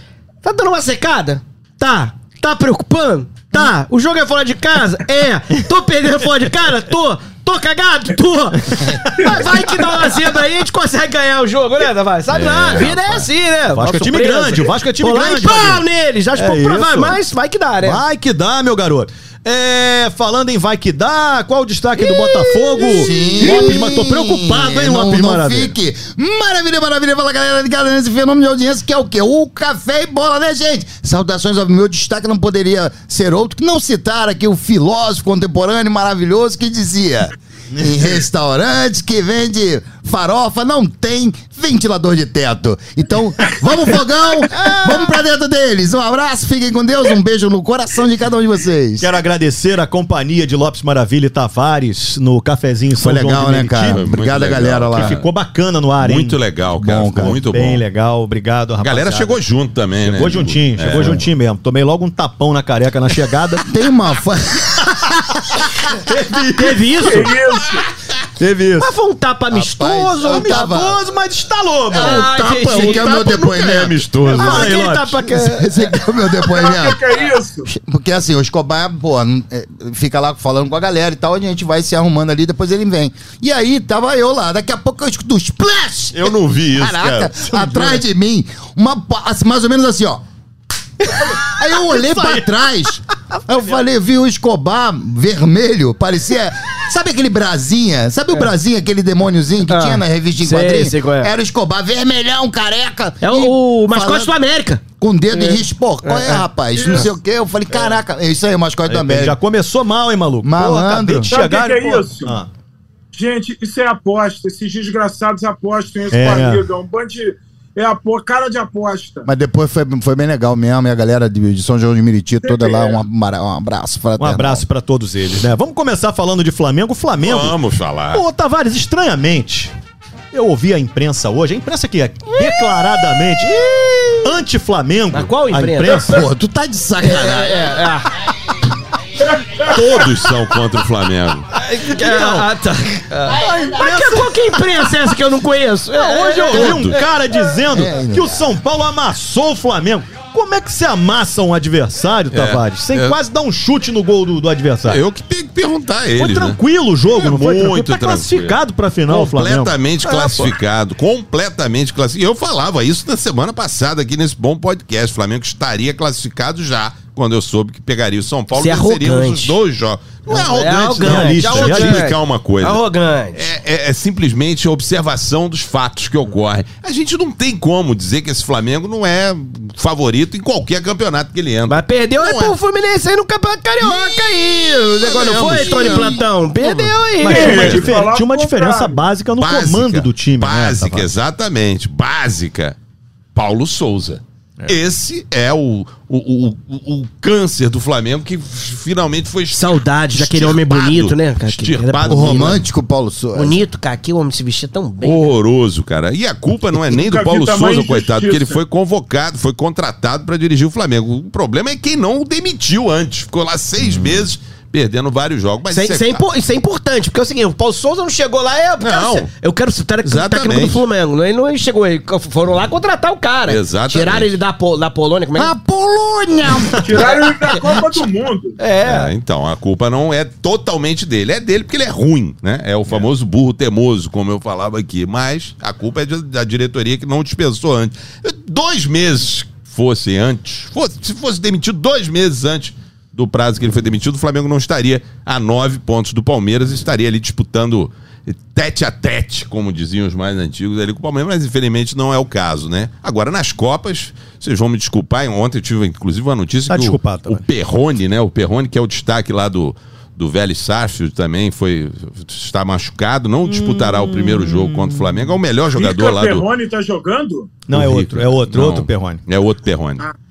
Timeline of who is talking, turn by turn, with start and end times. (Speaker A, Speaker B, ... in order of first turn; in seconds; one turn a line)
Speaker A: 0.4-18.0
Speaker B: 8.7-9.8
Speaker C: 12.3-13.3
Speaker B: 13.7-17.2
Speaker B: 17.8-25.7
Speaker A: 22.5-23.4
Speaker D: 22.8-49.1
Speaker B: 44.5-45.0
Speaker B: 49.0-54.0
Speaker D: 53.0-55.2
Speaker C: 53.9-55.2
Speaker B: 54.9-56.4
Speaker C: 56.0-57.8
Speaker D: 56.8-57.4
Speaker B: 57.2-59.4
Speaker C: 58.8-61.2
Speaker B: 60.0-63.7
Speaker D: 63.6-65.6
Speaker B: 65.8-67.2
Speaker A: 66.4-67.3
Speaker E: 67.0-67.8
Speaker B: 68.4-68.9
Speaker A: 68.8-70.7
Speaker D: 69.5-71.0
Speaker B: 70.2-72.3
Speaker D: 71.9-74.7
Speaker A: 71.9-73.3
Speaker C: 72.7-74.8
Speaker A: 74.2-75.9
Speaker B: 74.3-75.4
Speaker D: 75.3-77.0
Speaker E: 76.4-77.7
Speaker D: 77.7-90.2
Speaker C: 86.1-88.0
Speaker D: 91.2-104.3
Speaker B: 91.2-92.6
Speaker A: 99.7-101.3
Speaker A: 103.2-107.1
Speaker D: 105.0-109.4
Speaker E: 106.7-107.1
Speaker B: 108.8-112.5
Speaker D: 110.4-111.3
Speaker E: 111.3-112.3
Speaker E: 113.1-119.3
Speaker B: 116.1-116.6
Speaker D: 119.2-124.6
Speaker E: 122.4-123.0
Speaker B: 124.2-127.6
Speaker C: 127.2-128.2
Speaker B: 128.1-129.7
Speaker B: 130.3-133.6
Speaker A: 133.4-134.3
Speaker B: 134.2-136.3
Speaker A: 135.1-136.2
Speaker D: 135.9-137.8
Speaker A: 137.0-138.2
Speaker E: 139.2-140.1
Speaker C: 139.6-141.5
Speaker A: 141.5-147.0
Speaker B: 141.8-142.5
Speaker B: 143.3-145.1
Speaker B: 145.9-155.0
Speaker C: 146.5-147.0
Speaker D: 147.7-148.5
Speaker C: 152.3-153.2
Speaker C: 154.9-156.6
Speaker B: 156.2-160.5
Speaker C: 157.1-158.6
Speaker C: 159.1-172.8
Speaker A: 168.5-169.6
Speaker A: 170.3-173.4
Speaker B: 171.0-172.1
Speaker C: 173.3-182.5
Speaker A: 181.7-187.8
Speaker D: 183.8-184.5
Speaker C: 185.0-187.9
Speaker D: 185.2-186.3
Speaker B: 187.1-191.1
Speaker E: 187.2-189.0
Speaker C: 189.4-192.8
Speaker C: 193.3-202.6
Speaker A: 199.5-202.6
Speaker D: 202.0-203.6
Speaker A: 203.3-205.3
Speaker C: 205.0-216.2
Speaker E: 206.9-208.6
Speaker B: 213.8-214.2
Speaker A: 215.7-225.5
Speaker C: 218.8-219.3
Speaker C: 220.0-220.8
Speaker C: 223.4-224.3
Speaker D: 225.3-227.1
Speaker A: 226.6-227.7
Speaker E: 226.8-228.6
Speaker A: 228.6-229.1
Speaker C: 228.8-266.4
Speaker B: 256.7-257.4
Speaker B: 263.4-265.3
Speaker E: 265.7-267.6
Speaker B: 267.7-269.2
Speaker C: 267.7-270.1